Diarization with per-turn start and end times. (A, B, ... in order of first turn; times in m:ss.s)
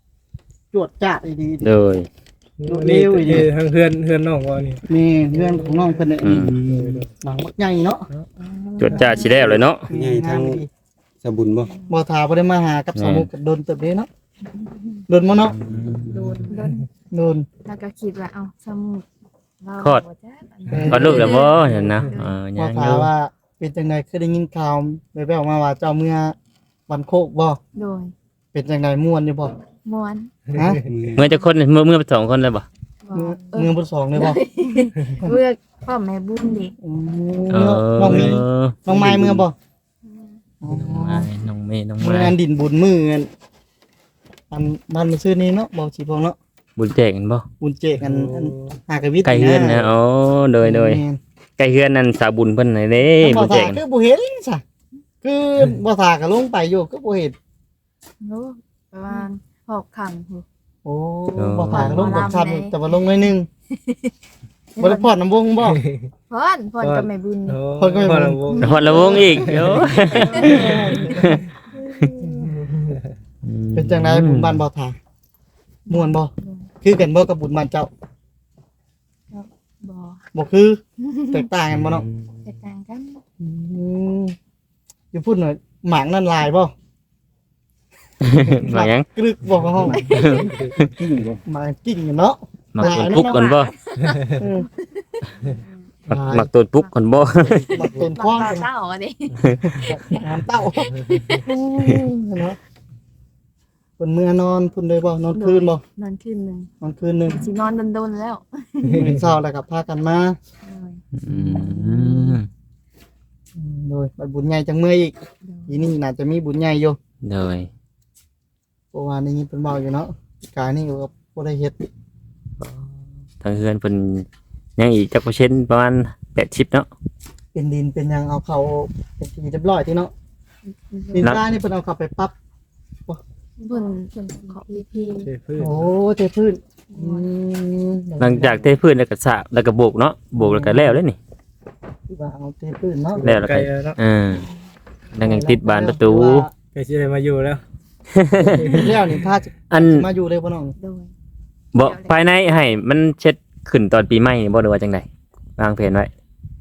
0:00.7-0:01.7 A
0:01.6-0:02.1 B
0:02.6-0:04.8 C
0:02.7-0:03.5 A
0:04.9-0:06.6 A
0:05.3-0:06.0 C
0:06.2-0:06.5 B
0:06.3-0:07.1 D
0:06.6-0:07.1 C
0:07.2-0:08.1 A
0:08.4-0:09.4 E
0:08.8-0:09.9 B
0:08.9-0:09.2 C
0:09.9-0:10.7 A
0:09.9-0:10.6 D
0:11.2-0:11.7 D
0:11.6-0:12.0 E
0:11.9-0:14.1 A
0:13.0-0:13.3 B
0:15.1-0:15.6 A
0:15.5-0:16.5 B
0:16.1-0:16.9 E
0:17.1-0:17.5 A
0:17.6-0:19.0 E
0:19.6-0:21.5 E
0:20.7-0:21.5 A
0:20.9-0:23.1 B
0:21.6-0:22.0 C
0:22.6-0:26.4 A
0:26.9-0:27.6 A
0:27.8-0:28.1 E
0:28.5-0:29.6 A
0:29.8-0:30.3 E
0:30.5-0:30.8 A
0:30.6-0:31.0 C
0:30.9-0:31.2 D
0:31.2-0:32.7 B
0:33.0-0:36.8 E
0:33.1-0:34.4 A
0:36.8-0:39.5 A
0:37.5-0:38.8 B
0:38.0-0:39.4 D
0:40.6-0:41.3 A
0:40.7-0:42.4 B
0:42.0-0:43.3 A
0:44.5-0:46.4 A
0:46.8-0:47.4 B
0:47.6-0:49.9 A
0:48.0-0:48.7 C
0:49.2-0:51.0 B
0:50.6-0:51.2 A
0:51.6-0:53.8 B
0:53.2-0:54.6 A
0:55.2-0:57.4 A
0:58.2-1:00.4 E
1:00.8-1:03.5 A
1:01.4-1:02.3 B
1:01.7-1:02.8 E
1:03.8-1:04.1 E
1:04.8-1:05.1 E
1:04.8-1:05.8 A
1:05.6-1:06.1 C
1:06.3-1:07.6 E
1:06.8-1:11.4 C
1:07.8-1:09.4 A
1:08.6-1:12.1 B
1:10.3-1:10.7 E
1:10.3-1:11.4 A
1:11.9-1:12.3 E
1:12.3-1:13.1 C
1:13.4-1:14.6 B
1:13.8-1:15.0 A
1:15.9-1:16.7 E
1:15.9-1:16.3 A
1:16.8-1:17.9 A
1:19.3-1:20.2 E
1:20.3-1:22.0 A
1:21.0-1:21.4 E
1:21.7-1:22.2 B
1:22.4-1:23.2 E
1:23.4-1:24.4 A
1:25.1-1:26.7 A
1:28.2-1:29.1 B
1:28.4-1:30.1 A
1:29.8-1:31.4 D
1:29.8-1:30.5 E
1:30.1-1:30.9 B
1:31.5-1:33.4 A
1:32.7-1:33.7 B
1:32.9-1:34.2 E
1:34.4-1:34.7 A
1:35.1-1:35.8 E
1:36.1-1:37.7 B
1:36.1-1:36.5 A
1:37.4-1:39.4 E
1:37.7-1:38.7 A
1:39.6-1:42.6 A
1:41.1-1:41.5 E
1:44.0-1:45.8 A
1:45.3-1:46.7 E
1:46.8-1:47.4 A
1:47.3-1:49.0 E
1:48.8-1:49.1 C
1:49.0-1:50.4 A
1:50.6-1:51.0 E
1:51.2-1:52.5 B
1:51.3-1:52.4 A
1:53.6-1:55.1 A
1:55.4-1:55.9 E
1:55.7-1:57.0 A
1:57.2-1:57.7 B
1:58.9-2:01.9 A
2:03.4-2:04.3 B
2:04.8-2:06.9 B
2:07.5-2:10.1 A
2:10.7-2:11.3 E
2:11.1-2:12.3 A
2:13.6-2:15.3 E
2:15.2-2:15.8 C
2:15.6-2:18.7 A
2:16.9-2:17.3 E
2:18.2-2:21.2 B
2:20.4-2:21.0 A
2:22.1-2:23.2 A
2:23.2-2:24.0 C
2:23.2-2:24.5 B
2:25.1-2:26.5 B
2:25.2-2:26.5 A
2:26.7-2:27.6 C
2:28.1-2:28.9 B
2:28.4-2:29.1 C
2:28.6-2:30.8 A
2:29.7-2:30.1 B
2:30.8-2:31.1 E
2:31.7-2:35.1 B
2:31.8-2:32.6 E
2:35.6-2:36.1 B